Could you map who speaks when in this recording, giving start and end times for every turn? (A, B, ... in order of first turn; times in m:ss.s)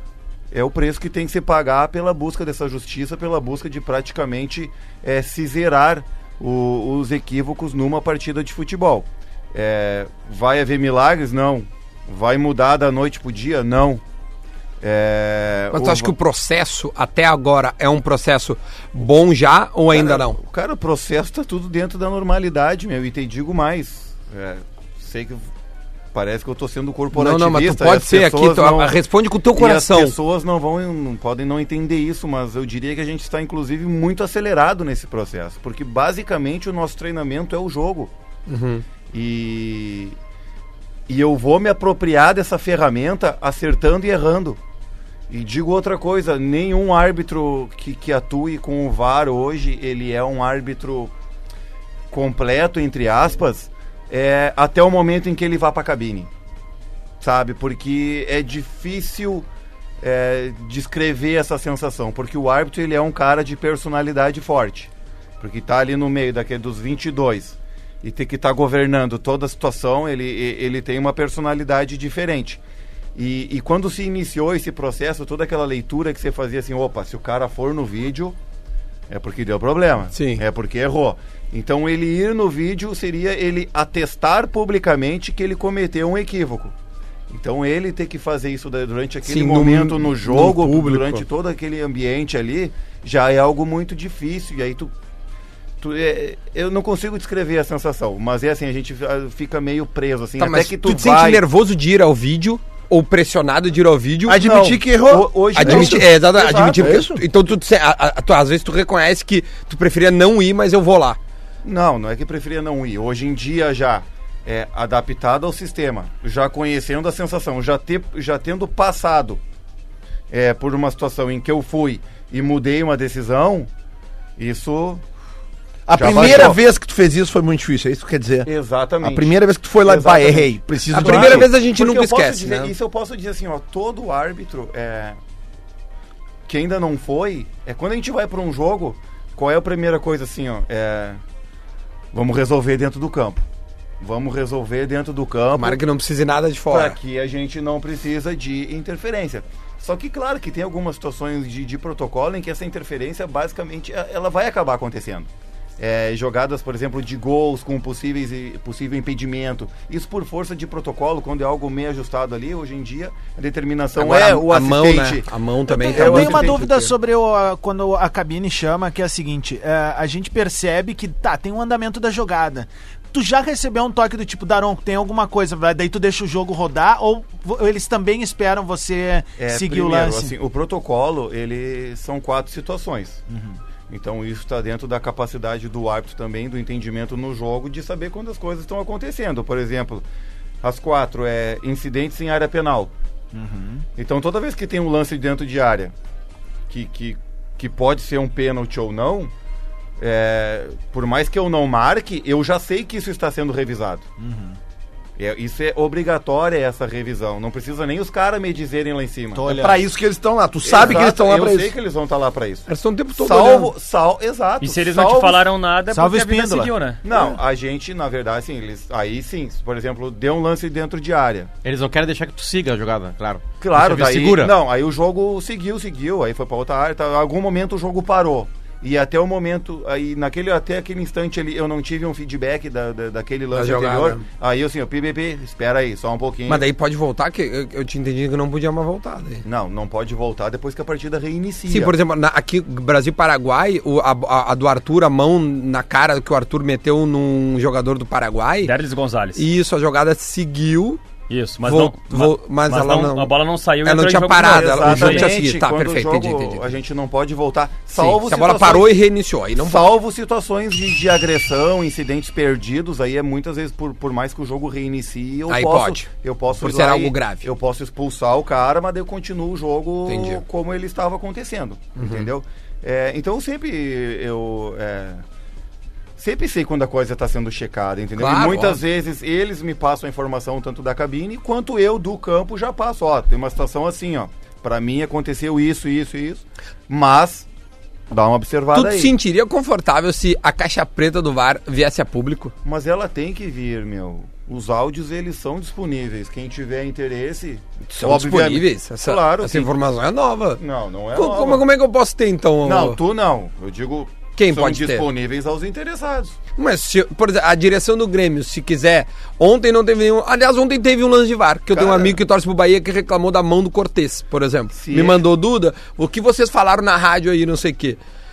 0:00.5-0:14.0 A
0:14.8-0:16.1 A
0:15.7-0:20.4 B
0:19.9-0:25.4 A
0:26.1-0:28.9 A
0:27.1-0:30.2 B
0:29.5-0:38.1 A
0:38.5-0:38.8 B
0:39.1-0:40.2 A
0:41.1-0:44.6 A
0:45.3-0:51.1 A
0:52.1-0:56.3 A
0:57.2-0:59.4 A
1:00.0-1:12.6 A
1:13.1-1:18.4 A
1:19.1-1:26.7 A
1:20.1-1:20.4 B
1:27.3-1:34.9 A
1:29.2-1:31.2 B
1:35.8-1:41.4 A
1:40.4-1:44.5 B
1:44.3-1:46.2 C
1:44.4-1:47.0 A
1:45.5-1:51.2 B
1:46.7-1:47.2 C
1:51.6-1:59.4 A
2:00.3-2:03.7 A
2:04.4-2:05.0 A
2:05.9-2:08.5 C
2:05.9-2:06.6 A
2:08.4-2:15.2 A
2:09.0-2:11.5 C
2:10.9-2:12.7 B
2:16.4-2:21.2 A
2:22.1-2:23.4 A
2:24.0-2:25.8 A
2:25.6-2:27.0 B
2:26.7-2:45.3 A
2:44.0-2:46.9 B
2:45.7-3:00.3 D
2:45.8-2:46.7 A
2:59.4-3:03.2 A
3:03.3-3:03.6 D
3:03.9-3:10.0 A
3:10.6-3:12.9 A
3:13.3-3:13.8 D
3:14.0-3:15.9 A
3:16.7-3:19.3 A
3:20.0-3:24.0 A
3:24.2-3:24.6 D
3:25.2-3:29.5 A
3:29.3-3:29.8 D
3:29.5-3:31.7 C
3:30.6-3:35.4 A
3:32.7-3:33.7 B
3:34.6-3:37.0 E
3:35.9-3:36.7 D
3:37.0-3:41.5 A
3:37.1-3:37.4 C
3:41.6-3:44.5 F
3:43.6-3:56.6 A
3:53.5-3:54.2 B
3:56.5-3:59.4 B
3:59.4-4:01.9 A
4:01.7-4:08.7 B
4:08.6-4:09.4 E
4:09.4-4:11.0 B
4:11.3-4:15.3 E
4:11.6-4:13.3 B
4:13.8-4:16.7 B
4:14.3-4:18.9 A
4:17.9-4:19.9 B
4:19.6-4:35.2 A
4:25.5-4:27.5 B
4:30.0-4:30.4 B
4:32.0-4:32.3 B
4:36.2-4:47.5 A
4:38.1-4:38.8 B
4:48.1-4:49.1 A
4:48.7-4:52.5 B
4:52.6-4:59.7 A
4:57.9-5:00.6 B
5:00.6-5:01.6 A
5:01.1-5:03.0 B
5:02.6-5:06.4 A
5:04.4-5:05.1 B
5:06.6-5:18.0 B
5:11.7-5:12.2 A
5:14.7-5:15.2 A